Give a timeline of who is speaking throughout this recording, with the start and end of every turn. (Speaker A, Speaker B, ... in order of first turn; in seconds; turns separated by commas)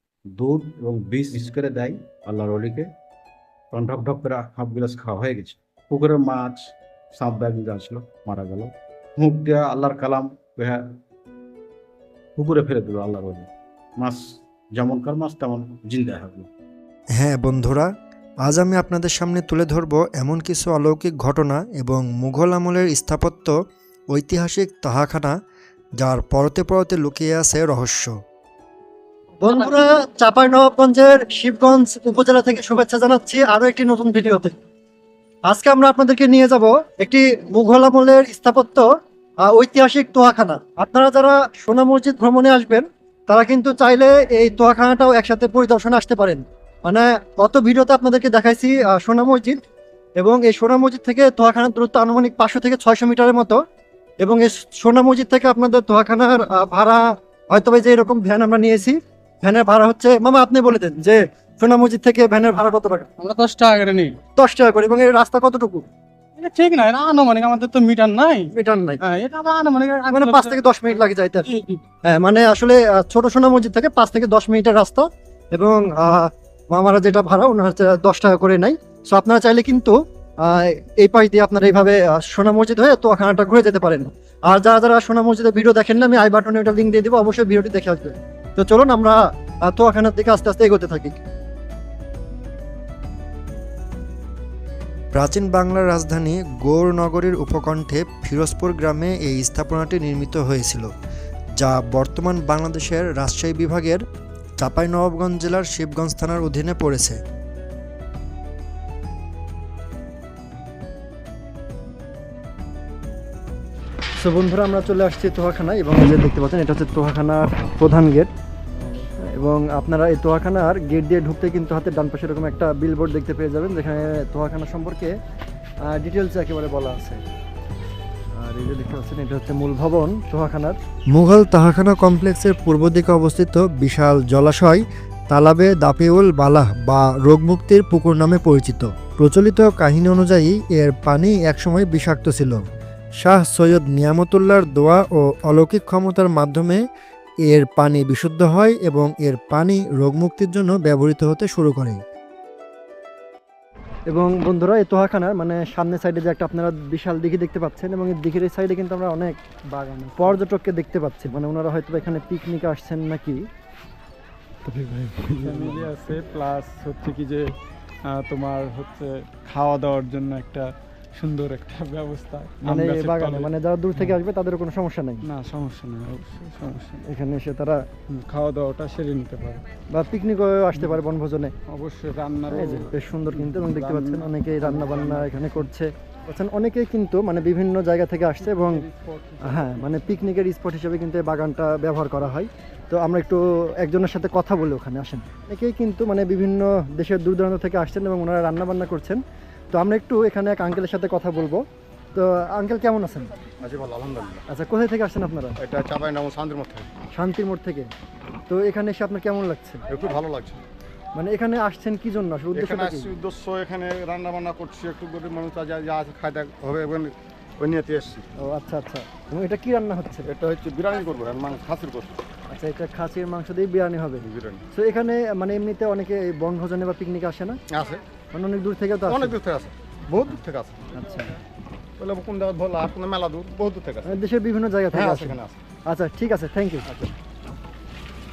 Speaker A: 0.3-2.9, Speaker A: 3.7-10.9, Speaker A: 12.4-16.5, Speaker B: 17.2-17.9, Speaker B: 18.4-23.6, Speaker B: 24.1-25.4, Speaker B: 26.0-28.1, Speaker C: 29.4-34.5, Speaker C: 35.5-38.9, Speaker C: 39.4-49.6, Speaker C: 50.2-53.6, Speaker C: 54.2-63.1, Speaker D: 63.2-64.2, Speaker C: 64.4-65.9, Speaker C: 68.5-69.0, Speaker D: 69.0-69.3, Speaker C: 70.1-71.5, Speaker D: 70.2-70.6, Speaker D: 71.5-71.8, Speaker C: 72.0-91.2, Speaker B: 95.1-100.9, Speaker B: 101.6-104.0, Speaker B: 104.6-107.2, Speaker C: 114.2-118.3, Speaker C: 119.3-125.1, Speaker C: 125.9-127.2, Speaker C: 128.3-130.8, Speaker B: 131.1-142.6, Speaker B: 143.2-146.8, Speaker B: 147.5-152.0, Speaker C: 154.1-163.4, Speaker D: 164.7-174.2, Speaker C: 165.4-165.9, Speaker C: 172.7-175.2, Speaker D: 175.2-177.0, Speaker C: 177.1-177.8, Speaker D: 178.1-179.6, Speaker C: 179.9-181.5, Speaker D: 181.7-185.7, Speaker C: 182.5-188.9, Speaker D: 188.4-189.9, Speaker C: 189.4-199.2, Speaker C: 199.7-201.6, Speaker C: 202.2-203.3, Speaker E: 203.6-204.4, Speaker C: 204.5-205.6, Speaker E: 205.6-206.9, Speaker C: 207.2-207.9, Speaker C: 208.5-209.9, Speaker E: 209.9-210.6, Speaker C: 211.2-213.1, Speaker E: 212.5-218.3, Speaker C: 218.4-220.3, Speaker E: 220.2-222.2, Speaker C: 222.5-227.6, Speaker E: 224.2-224.6, Speaker E: 227.7-228.0, Speaker C: 228.3-229.4, Speaker E: 229.1-230.9, Speaker C: 230.9-231.3, Speaker E: 232.0-234.1, Speaker C: 234.1-236.9, Speaker E: 234.9-235.6